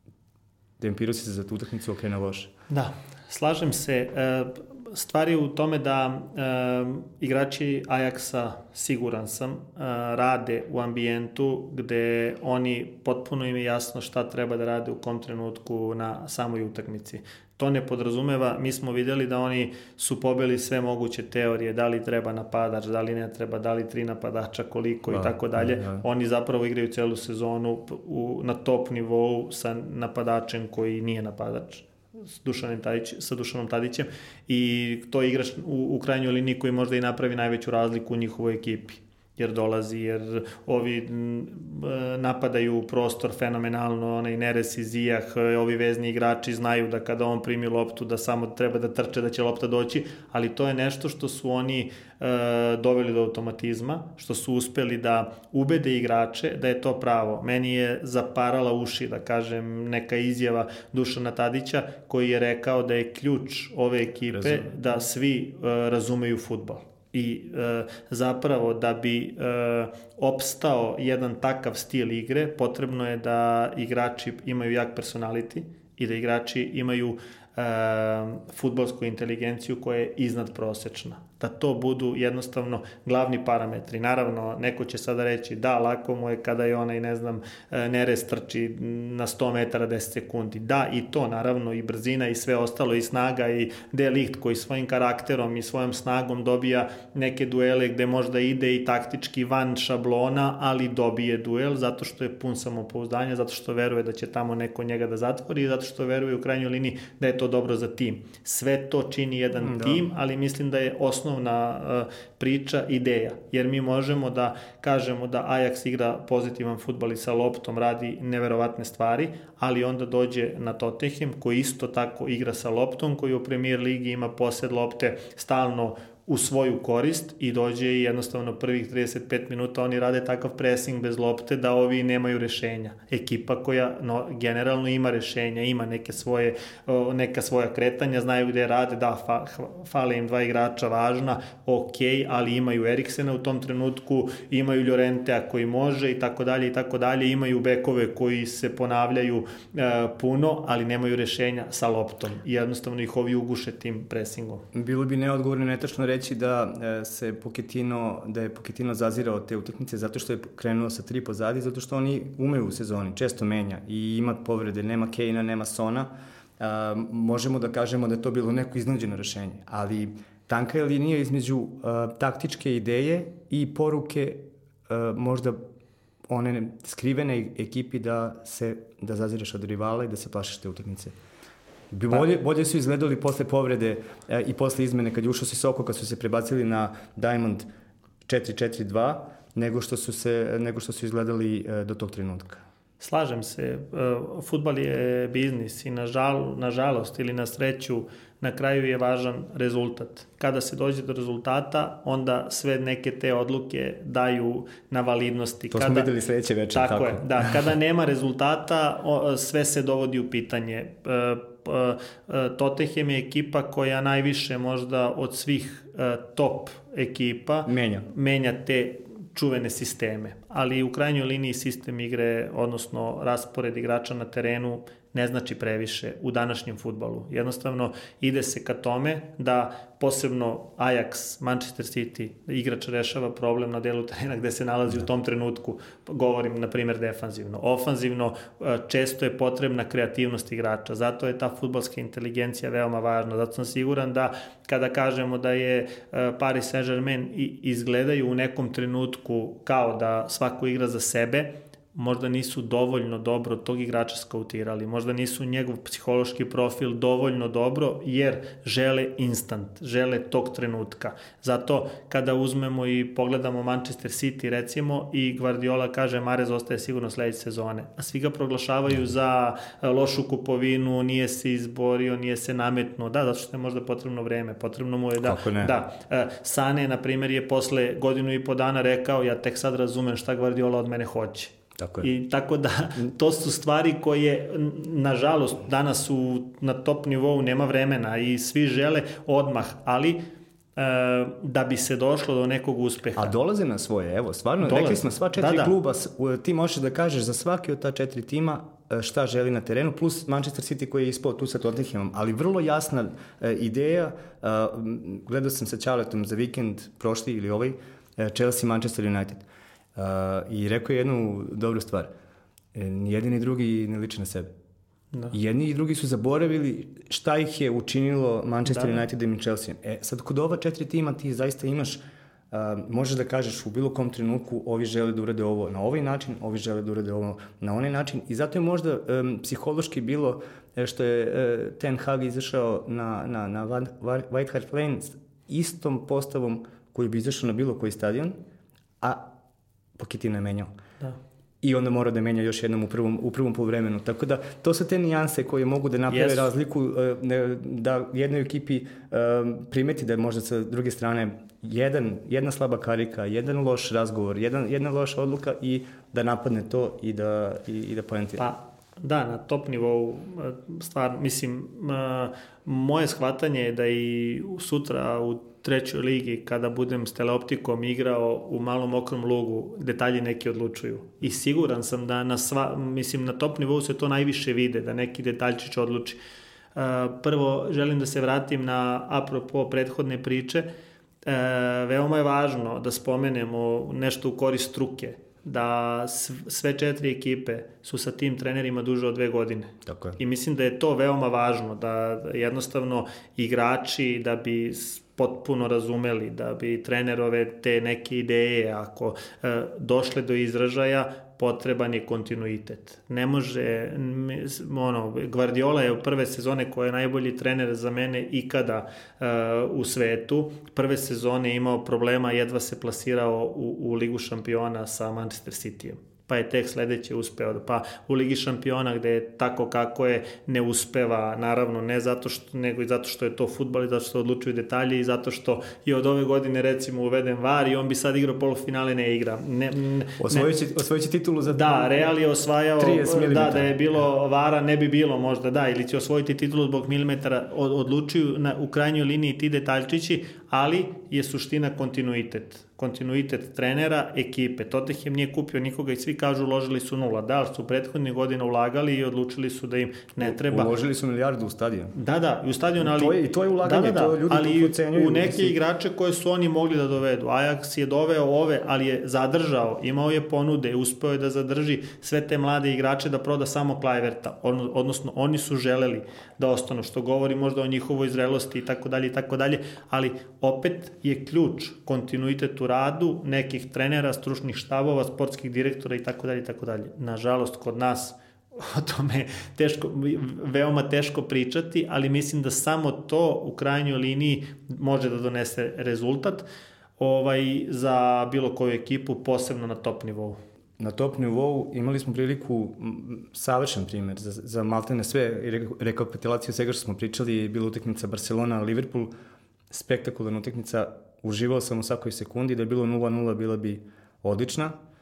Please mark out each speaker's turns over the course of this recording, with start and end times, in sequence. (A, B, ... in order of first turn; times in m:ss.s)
0:00.8-0:02.5 A
0:02.7-2:34.6 B
0:25.1-0:26.0 A
1:04.3-1:04.7 A
1:49.6-1:50.0 A
2:34.7-2:55.6 A
2:56.3-3:01.1 A
3:01.9-3:07.7 A
3:08.3-3:12.6 A
3:13.0-3:26.1 B
3:25.7-3:27.6 A
3:26.7-4:50.2 B
3:37.7-3:38.1 A
4:35.2-4:35.7 A
4:41.8-4:42.1 A
4:50.8-4:53.3 B
4:53.2-5:09.4 A
4:54.6-4:55.7 B
5:10.0-5:12.1 A
5:12.7-5:14.5 A
5:15.3-5:22.0 A
5:18.7-5:19.0 B
5:22.5-5:38.4 A
5:39.0-5:39.3 A
5:40.0-5:40.7 A
5:41.6-5:58.5 A
5:46.1-5:46.5 B
5:58.4-6:16.2 B
6:16.8-6:20.7 B
6:21.2-7:10.5 B
6:29.9-6:30.2 A
7:10.2-7:11.7 A
7:11.5-7:30.7 B
7:12.8-7:13.7 A
7:30.2-7:32.0 A
7:32.0-8:06.5 B
7:32.8-7:35.6 A
8:07.0-8:10.4 B
8:10.8-8:19.1 A
8:19.7-8:24.8 A